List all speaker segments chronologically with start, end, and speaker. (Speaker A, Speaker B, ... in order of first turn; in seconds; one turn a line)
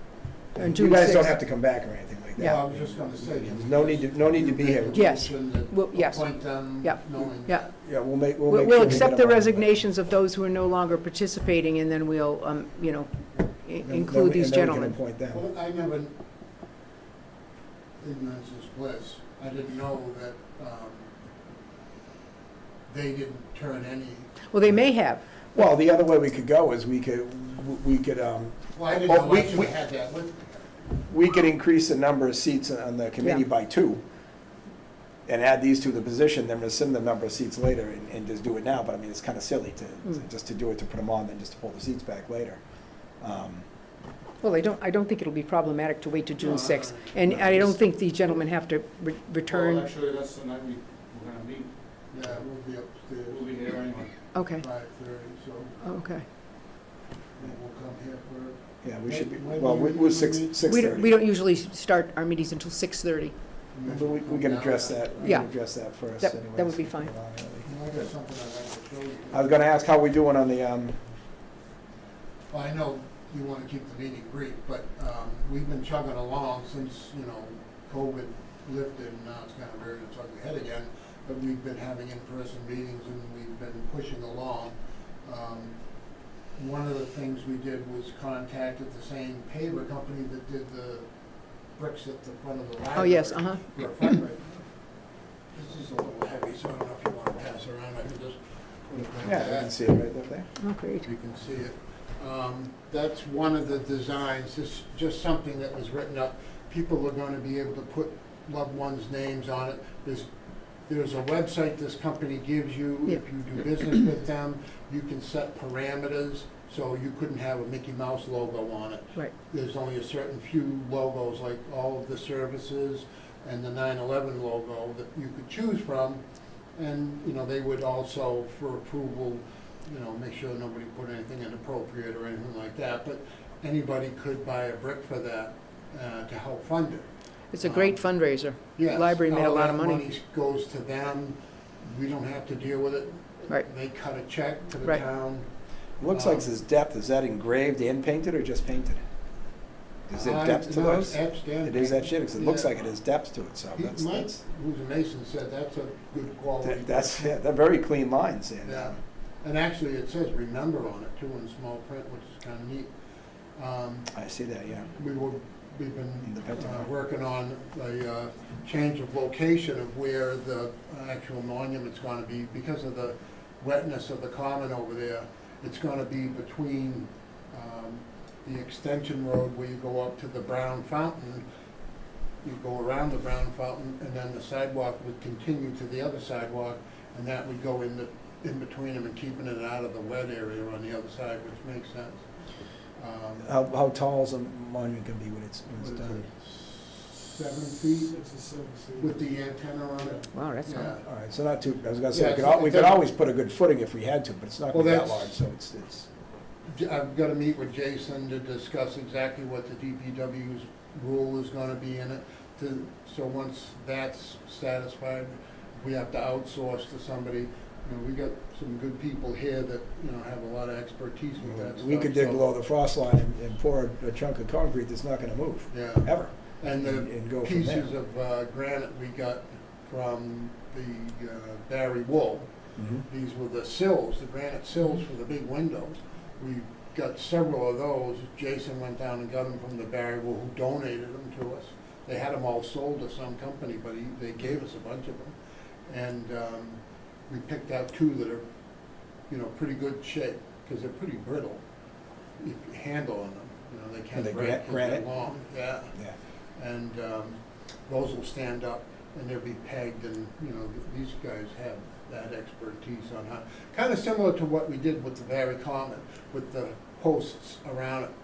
Speaker A: 0.6-1.4
Speaker B: 0.6-5.3
Speaker C: 2.4-7.7
Speaker A: 4.9-7.7
Speaker B: 7.8-9.7
Speaker A: 8.5-15.0
Speaker B: 13.8-15.4
Speaker C: 15.3-16.1
Speaker C: 18.0-21.1
Speaker C: 22.9-24.4
Speaker A: 24.5-25.2
Speaker B: 25.5-29.7
Speaker C: 28.8-30.7
Speaker B: 31.1-34.0
Speaker B: 35.3-42.6
Speaker B: 43.2-43.6
Speaker A: 44.4-49.9
Speaker C: 46.4-47.6
Speaker B: 47.3-47.7
Speaker D: 49.5-51.7
Speaker C: 52.1-55.8
Speaker D: 53.3-54.1
Speaker A: 54.3-54.6
Speaker A: 55.8-56.2
Speaker C: 57.4-61.0
Speaker B: 58.8-61.1
Speaker A: 60.7-63.4
Speaker C: 63.7-65.4
Speaker B: 63.9-67.7
Speaker A: 65.2-67.1
Speaker C: 67.6-69.5
Speaker B: 69.3-71.0
Speaker C: 72.5-85.8
Speaker C: 86.5-91.1
Speaker C: 91.7-94.9
Speaker A: 93.0-93.8
Speaker C: 95.5-99.9
Speaker B: 99.2-100.5
Speaker A: 100.6-101.1
Speaker C: 101.0-110.3
Speaker C: 110.9-126.2
Speaker C: 126.8-137.1
Speaker A: 137.5-140.0
Speaker C: 137.6-138.0
Speaker C: 138.8-145.5
Speaker B: 146.0-149.0
Speaker C: 146.1-146.4
Speaker B: 150.1-154.4
Speaker C: 150.1-152.7
Speaker C: 153.8-157.3
Speaker B: 156.6-159.0
Speaker C: 158.7-162.9
Speaker C: 163.6-164.1
Speaker B: 164.1-164.9
Speaker C: 164.9-181.4
Speaker B: 166.2-166.9
Speaker C: 182.4-192.3
Speaker C: 193.0-193.5
Speaker B: 193.4-196.3
Speaker C: 195.8-198.2
Speaker D: 198.2-199.0
Speaker C: 199.0-201.1
Speaker A: 200.3-200.9
Speaker B: 201.1-206.1
Speaker C: 202.1-203.0
Speaker C: 204.7-205.3
Speaker C: 206.7-222.4
Speaker B: 221.5-227.9
Speaker C: 225.7-232.5
Speaker B: 232.8-233.0
Speaker C: 233.1-245.3
Speaker C: 245.9-248.4
Speaker C: 249.3-251.6
Speaker C: 252.4-256.0
Speaker B: 254.2-255.1
Speaker C: 256.6-268.1